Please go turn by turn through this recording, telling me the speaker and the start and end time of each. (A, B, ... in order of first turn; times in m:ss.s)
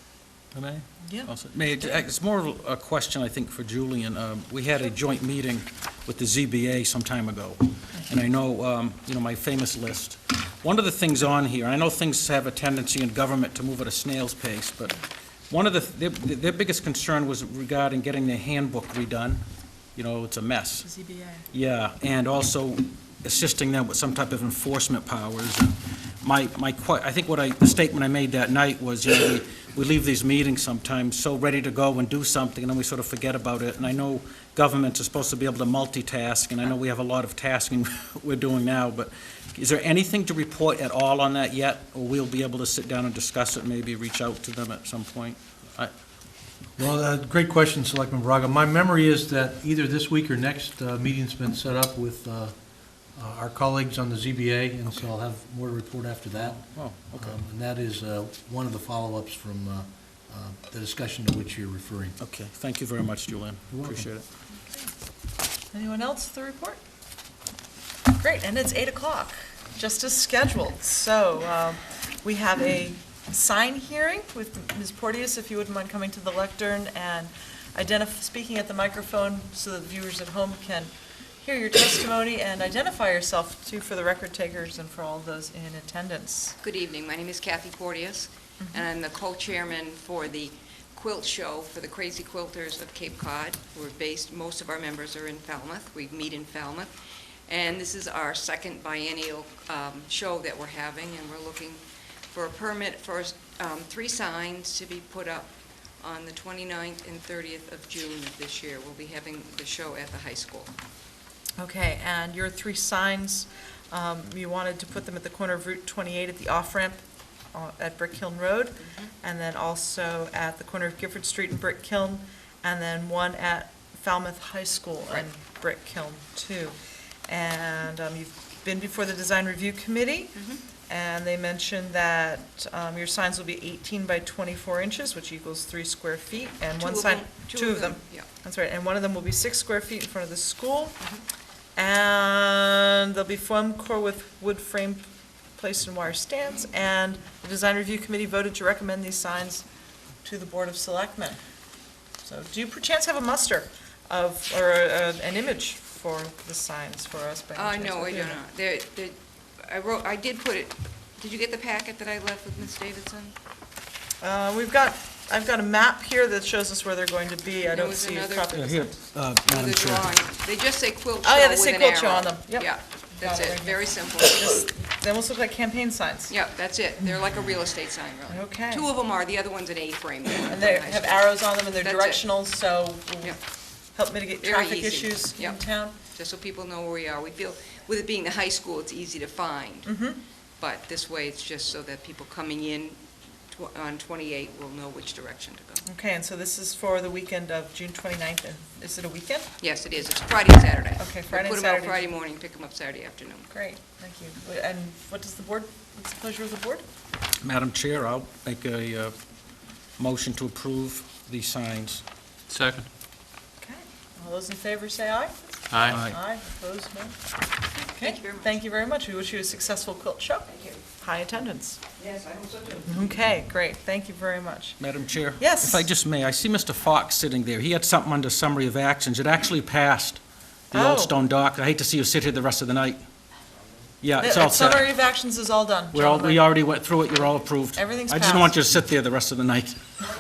0:00.5-0:15.0 A
0:01.0-0:02.0 B
0:15.5-0:19.4 A
0:20.0-0:20.9 A
0:20.8-0:21.4 B
0:21.5-0:45.9 A
0:46.8-1:02.2 C
0:56.4-0:57.4 A
1:02.2-1:04.2 A
1:03.7-1:04.1 C
1:05.7-1:06.8 B
1:08.2-1:20.9 B
1:21.4-1:26.6 B
1:26.6-1:36.9 D
1:37.5-1:50.7 D
1:51.6-1:57.0 B
1:57.5-2:06.7 B
1:58.8-1:59.1 D
2:07.3-2:21.0 B
2:10.4-2:10.6 D
2:16.8-2:18.3 D
2:21.8-2:29.6 B
2:30.2-2:31.4 B
2:32.2-2:38.4 B
2:37.5-2:43.3 D
2:44.2-2:48.9 B
2:47.6-2:48.5 D
2:48.5-2:50.2 A
2:49.5-2:54.6 D
2:51.2-2:56.3 B
2:56.3-3:02.2 D
2:57.0-2:57.4 B
2:58.3-2:58.8 B
3:00.4-3:03.4 B
3:03.9-3:05.9 B
3:04.4-3:09.9 D
3:09.8-3:10.2 B
3:10.6-3:13.0 D
3:13.5-3:15.8 D
3:15.8-3:19.5 B
3:19.6-3:23.5 D
3:21.0-3:22.1 B
3:23.5-3:26.8 B
3:27.4-3:29.1 A
3:30.0-3:32.0 A
3:33.6-3:37.2 B
3:35.8-3:36.1 A
3:37.8-3:38.5 D
3:38.0-3:41.8 B
3:42.0-3:42.8 D
3:42.8-3:44.8 B
3:44.8-3:50.2 A
3:45.4-3:45.8 B
3:50.7-3:53.0 A
3:50.7-3:51.1 B
3:54.0-3:54.9 A
3:54.2-3:56.4 B
3:55.9-3:59.8 A
3:57.7-3:58.5 B